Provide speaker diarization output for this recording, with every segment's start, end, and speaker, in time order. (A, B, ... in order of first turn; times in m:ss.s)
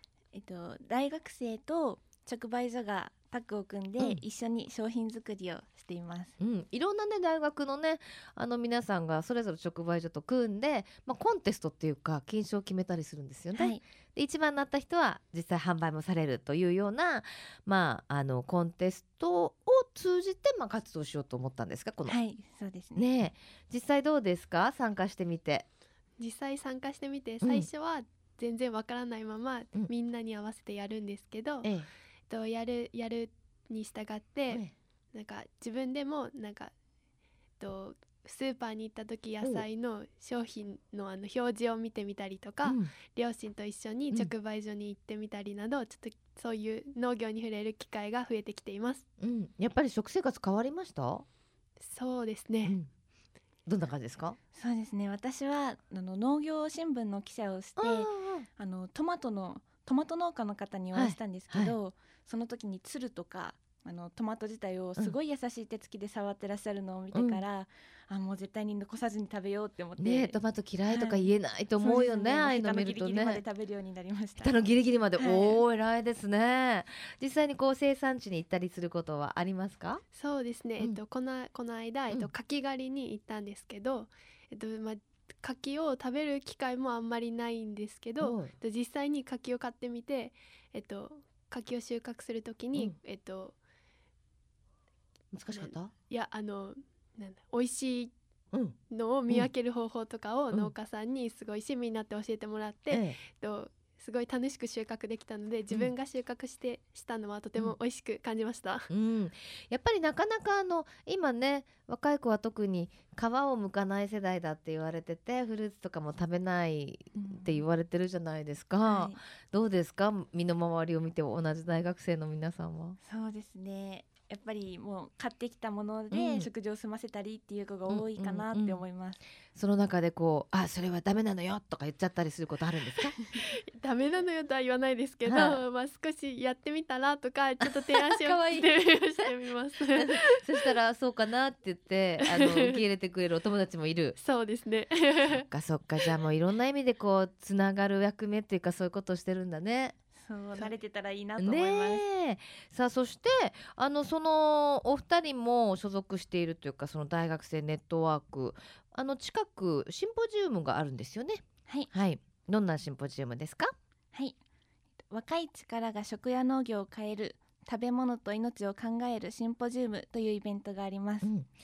0:00.3-0:06.4 A
0:06.4-0:22.2 B
0:13.6-0:13.8 A
0:22.1-0:23.0 A
0:23.0-0:25.7 B
0:26.2-0:31.7 C
0:27.4-0:27.7 B
0:31.6-0:31.9 B
0:32.3-0:36.7 C
0:34.5-0:34.7 B
0:37.6-0:49.0 C
0:42.6-0:42.9 B
0:49.2-0:51.2 B
0:51.8-0:52.8 C
0:53.7-0:54.4 B
0:54.6-1:10.4 A
0:57.8-0:58.5 B
1:00.9-1:01.8 B
1:07.1-1:07.4 B
1:10.0-1:13.4 B
1:10.9-1:14.6 A
1:14.4-1:20.0 B
1:15.2-1:15.6 A
1:20.1-1:33.6 C
1:28.2-1:28.5 B
1:35.3-1:35.9 B
1:35.5-1:38.1 C
1:38.9-1:48.9 C
1:42.9-1:43.2 B
1:48.9-2:03.0 B
1:57.2-1:57.6 A
1:58.8-1:59.2 A
2:03.0-2:09.2 A
2:06.1-2:06.5 B
2:07.9-2:08.8 B
2:09.6-2:13.2 B
2:13.4-2:20.6 C
2:15.3-2:15.6 B
2:17.6-2:18.7 B
2:20.0-2:24.2 B
2:22.3-2:22.8 C
2:24.2-2:25.4 C
2:25.3-2:30.0 B
2:30.2-2:32.0 A
2:31.4-2:43.7 B
2:45.1-2:51.3 A